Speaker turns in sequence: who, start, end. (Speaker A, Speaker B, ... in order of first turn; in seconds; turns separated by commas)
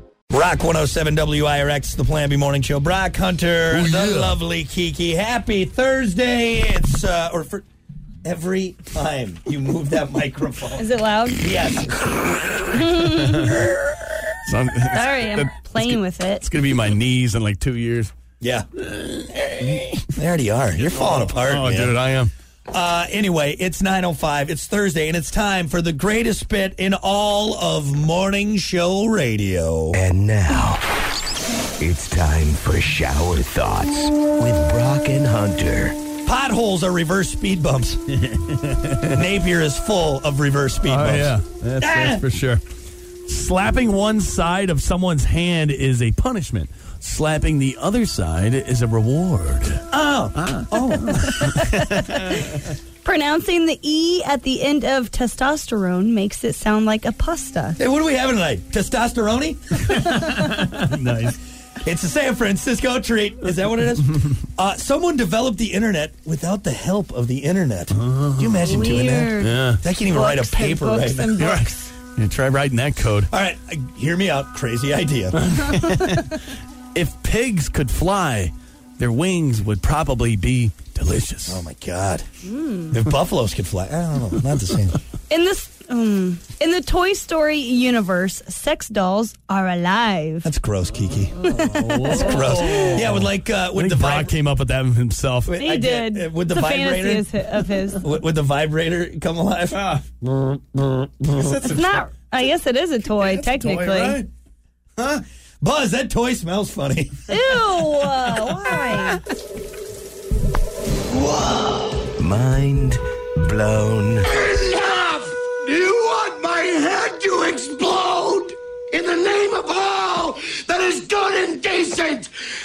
Speaker A: 0.3-7.6, Speaker B: 3.7-4.3, Speaker A: 8.2-10.9, Speaker C: 10.8-11.7, Speaker A: 11.4-12.8, Speaker C: 12.7-13.7, Speaker B: 13.2-13.6, Speaker B: 14.5-18.1, Speaker C: 14.9-16.5, Speaker A: 18.4-18.6, Speaker B: 19.0-19.9, Speaker A: 20.0-22.0, Speaker B: 21.0-22.3, Speaker A: 22.7-30.0, Speaker D: 29.9-30.8, Speaker D: 31.8-36.0, Speaker A: 36.3-38.0, Speaker B: 38.4-39.0, Speaker A: 39.1-42.2, Speaker B: 40.8-42.6, Speaker B: 43.3-49.8, Speaker A: 49.9-51.6, Speaker B: 51.2-52.4, Speaker C: 53.0-57.8, Speaker A: 57.8-60.0, Speaker B: 60.0-61.4, Speaker A: 61.8-71.3, Speaker B: 68.0-68.5, Speaker C: 68.6-71.9, Speaker B: 69.4-69.8, Speaker B: 71.4-73.3, Speaker A: 73.3-75.4, Speaker B: 75.5-76.3, Speaker B: 77.0-81.6, Speaker A: 81.5-82.2, Speaker C: 82.4-83.0, Speaker A: 82.9-85.0, Speaker C: 85.3-90.5, Speaker A: 90.4-91.4, Speaker C: 91.4-93.0, Speaker B: 91.5-95.5, Speaker A: 92.0-94.3, Speaker A: 95.5-97.3, Speaker C: 95.6-98.0, Speaker A: 98.0-101.7, Speaker C: 101.5-104.2, Speaker A: 103.2-104.3, Speaker A: 105.0-107.2, Speaker C: 107.3-109.2, Speaker A: 111.1-112.1, Speaker D: 112.2-114.3, Speaker E: 114.3-122.3